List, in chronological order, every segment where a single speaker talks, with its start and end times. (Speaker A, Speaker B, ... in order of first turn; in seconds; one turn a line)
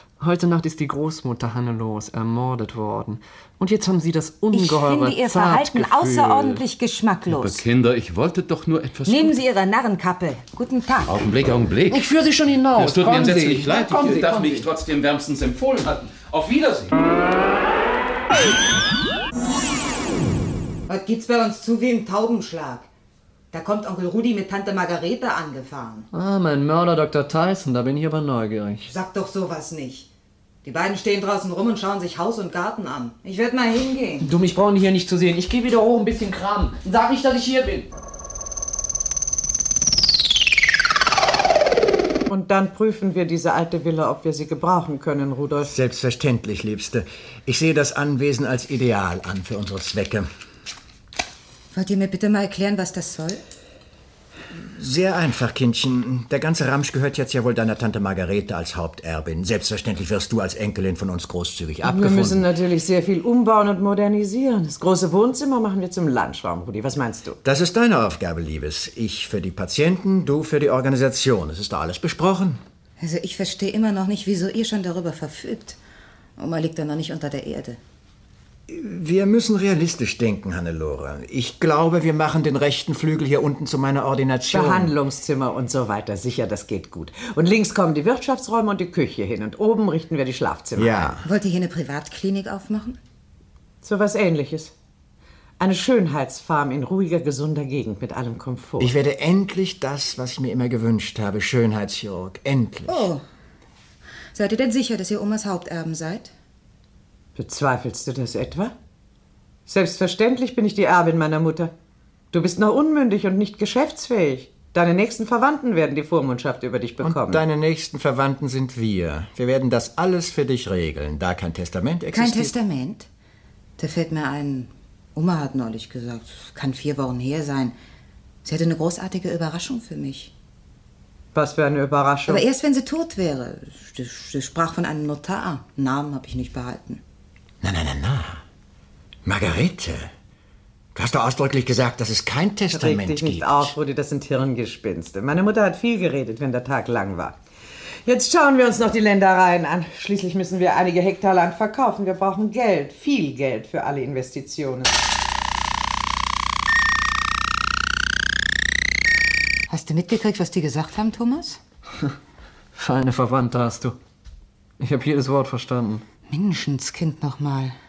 Speaker A: 0.2-6.6
Speaker B: 4.5-7.6
Speaker C: 7.3-9.4
Speaker B: 9.1-11.1
Speaker C: 11.1-12.1
Speaker A: 11.9-14.7
Speaker C: 12.7-16.9
Speaker B: 20.9-22.9
Speaker B: 23.5-26.1
Speaker A: 26.1-28.9
Speaker B: 28.9-30.1
Speaker B: 30.6-34.3
Speaker A: 34.2-37.9
Speaker D: 42.3-45.7
Speaker E: 45.6-50.3
Speaker B: 51.7-53.4
Speaker E: 54.5-62.5
Speaker D: 61.8-67.4
Speaker E: 67.4-72.6
Speaker B: 73.0-75.8
Speaker B: 76.4-77.8
Speaker E: 78.7-84.9
Speaker D: 84.5-91.2
Speaker E: 90.8-91.2
Speaker B: 91.2-93.0
Speaker D: 93.8-94.7
Speaker D: 95.6-98.9
Speaker E: 98.8-103.1
Speaker B: 102.9-103.2
Speaker B: 104.3-106.3
Speaker D: 107.3-108.7
Speaker D: 109.7-111.7
Speaker D: 112.3-117.4
Speaker E: 117.0-122.5
Speaker B: 122.1-123.1
Speaker B: 123.8-127.7
Speaker B: 128.4-130.3
Speaker D: 131.3-132.4
Speaker B: 132.3-137.0
Speaker E: 137.6-138.4
Speaker E: 139.2-140.1
Speaker E: 140.9-143.7
Speaker D: 142.7-147.3
Speaker D: 148.1-155.0
Speaker B: 159.7-161.6
Speaker A: 162.7-163.9
Speaker A: 164.8-166.0
Speaker B: 166.3-167.7